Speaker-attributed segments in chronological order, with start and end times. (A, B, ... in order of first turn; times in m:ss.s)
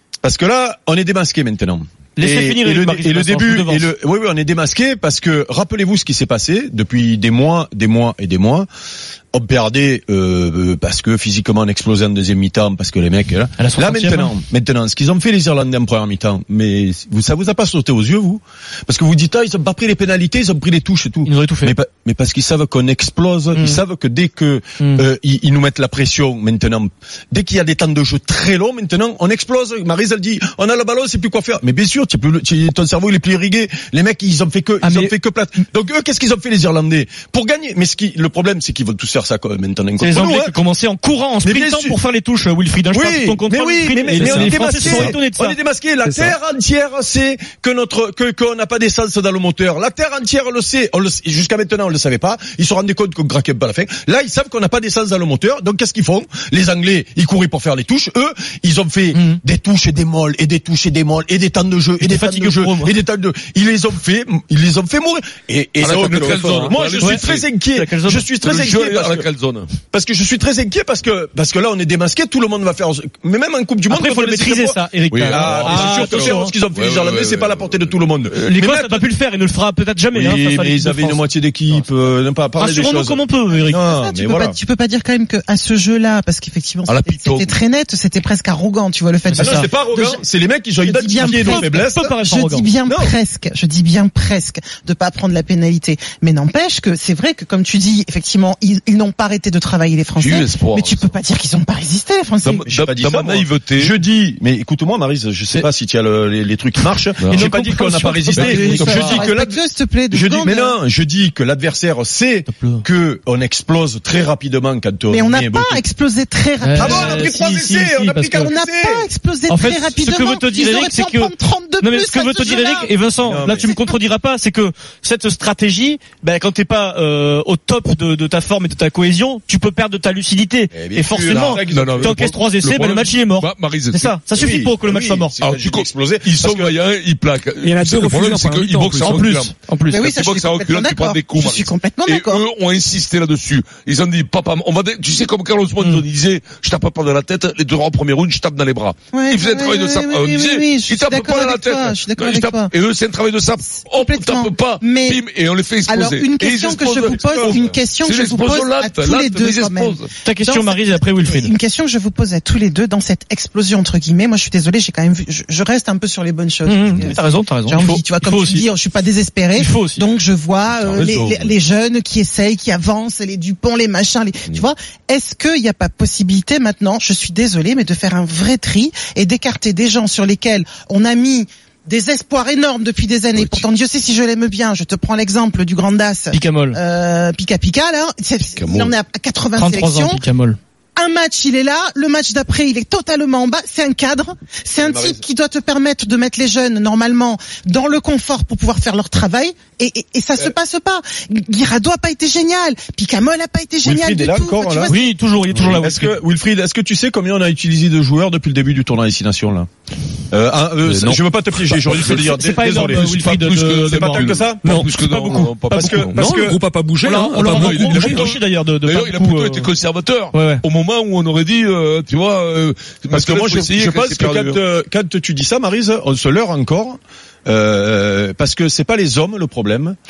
0:00.2-0:08.7 A
0:02.2-0:03.9 B
0:09.3-0:40.5 A
0:13.6-0:14.3 B
0:21.2-0:21.8 B
0:23.6-0:23.8 B
0:24.8-0:25.0 B
0:34.8-0:35.1 B
0:40.0-0:45.6 B
0:41.4-0:42.0 A
0:42.9-1:09.3 A
0:44.2-0:45.1 C
0:46.0-0:46.4 C
0:59.1-0:59.4 B
1:02.0-1:02.9 B
1:05.8-1:07.5 D
1:07.8-1:08.2 B
1:08.4-1:09.8 D
1:09.8-1:19.0 A
1:13.9-1:16.5 B
1:15.1-1:18.5 D
1:18.4-1:21.8 B
1:20.1-1:24.6 A
1:22.6-1:23.8 B
1:23.5-1:30.2 E
1:26.9-1:27.6 D
1:29.3-1:29.7 B
1:29.4-1:32.1 A
1:30.8-1:42.8 E
1:31.4-1:32.7 B
1:32.9-1:33.2 A
1:40.2-1:41.2 D
1:42.4-1:44.0 D
1:42.7-1:49.6 A
1:47.2-1:47.5 D
1:47.3-1:49.0 B
1:48.3-1:50.8 E
1:48.4-1:49.2 D
1:50.1-1:55.8 A
1:52.5-1:52.8 B
1:55.1-1:57.3 E
1:56.6-1:58.5 B
1:56.8-1:59.1 A
1:58.4-2:02.9 E
1:59.5-2:15.4 B
2:03.2-2:03.7 A
2:03.6-2:04.0 E
2:10.7-2:12.4 A
2:11.3-2:14.2 D
2:14.3-2:16.8 A
2:15.4-2:40.1 D
2:17.6-2:19.3 C
2:19.0-2:20.0 B
2:19.9-2:22.4 E
2:29.1-2:32.7 E
2:33.6-2:35.2 E
2:35.8-3:10.2 E
2:37.2-2:37.6 A
2:40.2-2:41.5 B
2:46.7-2:48.7 B
2:49.6-2:50.1 B
2:50.8-2:51.5 D
3:03.3-3:03.7 D
3:06.3-3:06.8 B
3:08.6-3:09.0 D
3:09.6-3:10.6 B
3:11.0-3:25.0 E
3:14.8-3:15.2 A
3:23.8-3:25.0 A
3:24.9-3:26.2 B
3:25.5-3:29.7 A
3:30.3-3:35.1 A
3:30.8-3:32.3 D
3:32.0-3:34.3 B
3:32.9-3:36.3 D
3:34.6-3:38.3 C
3:35.7-3:36.6 A
3:37.0-3:39.7 B
3:37.4-3:44.6 D
3:40.3-3:40.6 B
3:43.1-3:50.0 A